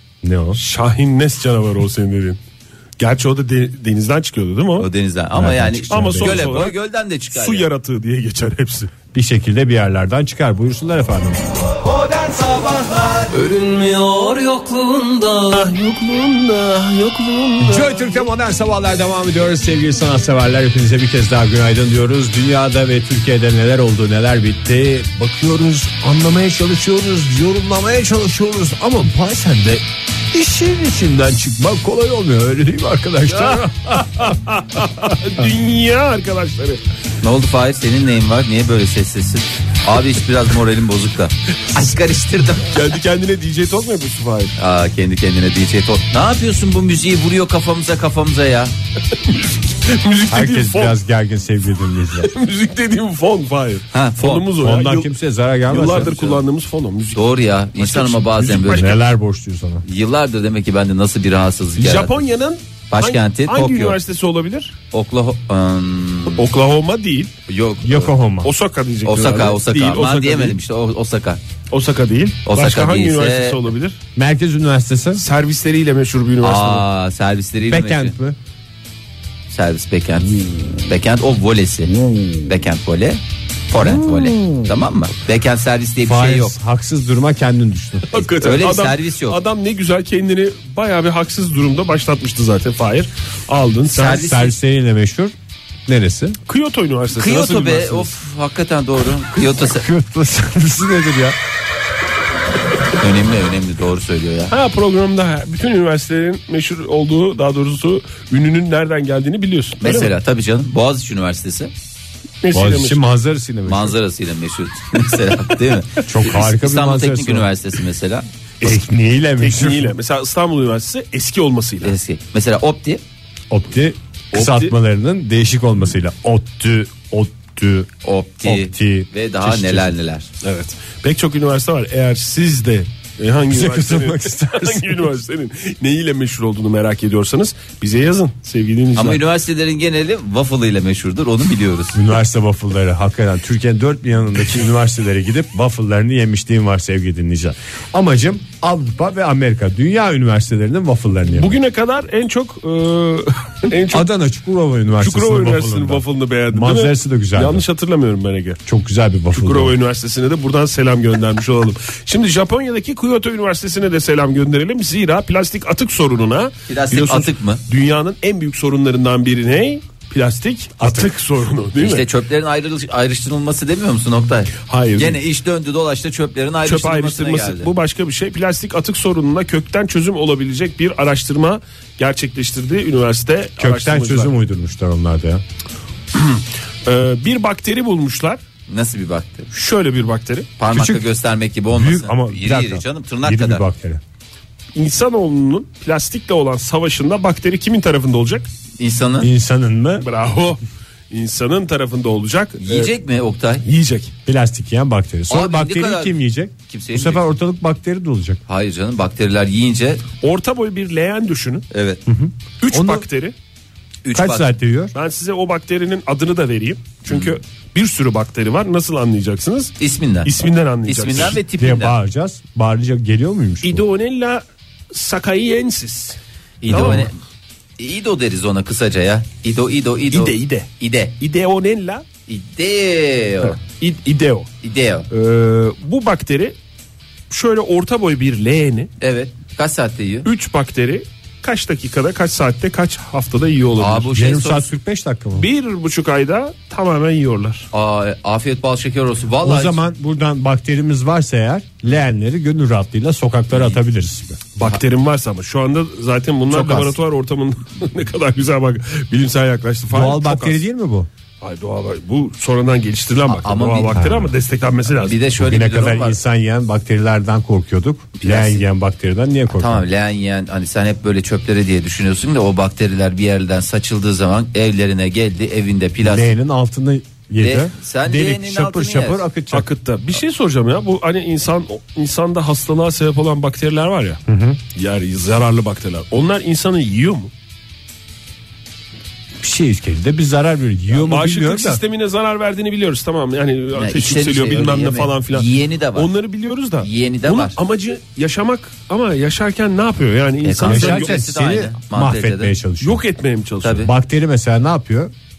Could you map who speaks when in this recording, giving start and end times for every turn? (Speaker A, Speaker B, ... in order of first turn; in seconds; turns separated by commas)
Speaker A: 0.2-0.6, Speaker B: 0.6-2.4, Speaker B: 3.0-4.9, Speaker C: 4.8-7.7, Speaker A: 5.3-6.6, Speaker B: 5.9-6.8, Speaker B: 7.3-8.9, Speaker A: 9.1-11.4, Speaker B: 13.3-18.1, Speaker A: 17.6-34.4, Speaker B: 33.3-36.8, Speaker C: 37.2-42.7, Speaker B: 42.7-44.5, Speaker C: 44.6-48.7, Speaker B: 49.3-51.0, Speaker A: 50.3-52.3, Speaker B: 52.2-55.1, Speaker C: 53.9-54.5, Speaker A: 54.6-56.2, Speaker B: 55.7-59.0, Speaker C: 56.0-56.4, Speaker C: 57.1-58.9, Speaker A: 58.7-59.9, Speaker C: 59.9-62.2, Speaker B: 61.8-64.8, Speaker C: 62.9-64.0, Speaker C: 64.9-66.5, Speaker B: 66.3-67.3, Speaker C: 67.5-68.1, Speaker A: 67.8-68.5, Speaker B: 68.4-70.6, Speaker C: 69.0-71.4, Speaker B: 71.7-74.0, Speaker C: 72.5-73.6, Speaker A: 74.2-75.2, Speaker B: 75.2-76.8, Speaker C: 76.4-78.2, Speaker A: 77.7-78.4, Speaker C: 79.5-81.9, Speaker C: 82.5-86.6, Speaker A: 83.8-84.7, Speaker A: 86.0-88.2, Speaker B: 88.1-94.3, Speaker C: 88.4-89.4, Speaker C: 94.0-94.5, Speaker A: 94.0-95.3, Speaker A: 95.9-96.4, Speaker B: 96.5-98.1, Speaker C: 97.2-99.9, Speaker A: 99.8-101.4, Speaker C: 103.0-104.5, Speaker B: 104.5-110.1, Speaker C: 109.8-111.7, Speaker B: 112.4-113.0, Speaker A: 112.5-114.0, Speaker C: 113.7-118.3, Speaker A: 116.0-117.5, Speaker A: 118.6-119.9, Speaker B: 119.4-122.0, Speaker C: 121.8-123.0, Speaker A: 123.5-127.9, Speaker B: 124.3-124.7, Speaker C: 128.0-130.3, Speaker A: 128.4-129.9, Speaker B: 130.4-139.2, Speaker A: 133.5-135.1, Speaker C: 139.0-142.0, Speaker A: 141.9-151.6, Speaker B: 151.4-154.1, Speaker A: 153.9-157.7, Speaker B: 155.0-158.6, Speaker A: 158.7-159.8, Speaker B: 159.3-172.1, Speaker C: 166.7-167.6, Speaker C: 171.8-177.7, Speaker B: 174.6-175.2, Speaker B: 176.7-184.3, Speaker A: 183.6-185.4, Speaker B: 186.1-188.4, Speaker C: 188.7-189.5, Speaker B: 189.5-190.5, Speaker C: 190.6-193.6, Speaker A: 190.7-191.1, Speaker A: 191.7-194.0, Speaker B: 194.8-198.5, Speaker C: 198.8-199.3, Speaker A: 199.2-200.1, Speaker B: 200.0-200.6, Speaker B: 201.1-202.9, Speaker C: 202.6-203.6, Speaker B: 203.6-204.1, Speaker A: 204.3-208.4, Speaker C: 205.3-206.2, Speaker C: 206.7-207.2, Speaker C: 208.5-210.0, Speaker B: 210.2-211.7, Speaker C: 211.7-212.0, Speaker A: 212.1-213.1, Speaker B: 212.6-213.3, Speaker C: 214.0-214.5, Speaker A: 214.1-214.9, Speaker B: 214.9-221.4, Speaker C: 219.8-220.3, Speaker C: 220.8-222.0, Speaker A: 221.2-223.8, Speaker B: 223.6-227.1, Speaker C: 226.6-227.2, Speaker C: 227.8-231.1, Speaker B: 230.1-232.0, Speaker C: 232.3-233.6, Speaker B: 233.6-234.5, Speaker C: 234.6-235.1, Speaker B: 235.1-236.6, Speaker B: 237.3-238.9, Speaker C: 239.0-240.3, Speaker B: 240.2-244.1, Speaker C: 243.8-244.7, Speaker A: 244.2-245.5, Speaker B: 245.4-247.7, Speaker C: 247.7-249.8, Speaker A: 249.4-254.5, Speaker B: 254.6-260.6, Speaker A: 256.5-256.9, Speaker A: 259.9-261.1, Speaker B: 261.4-265.2, Speaker C: 263.3-264.0, Speaker A: 264.0-264.3, Speaker C: 264.9-266.2, Speaker A: 265.4-269.8, Speaker C: 268.2-268.6, Speaker C: 269.5-276.3, Speaker A: 276.0-279.7, Speaker C: 277.4-279.2, Speaker B: 279.5-284.2, Speaker A: 284.3-284.6, Speaker B: 284.8-287.3, Speaker A: 289.4-291.8, Speaker B: 291.0-301.2, Speaker C: 293.8-296.1, Speaker C: 296.8-297.6, Speaker C: 300.4-302.6, Speaker A: 300.6-303.0, Speaker B: 302.8-303.9, Speaker C: 303.6-303.9, Speaker A: 303.8-305.1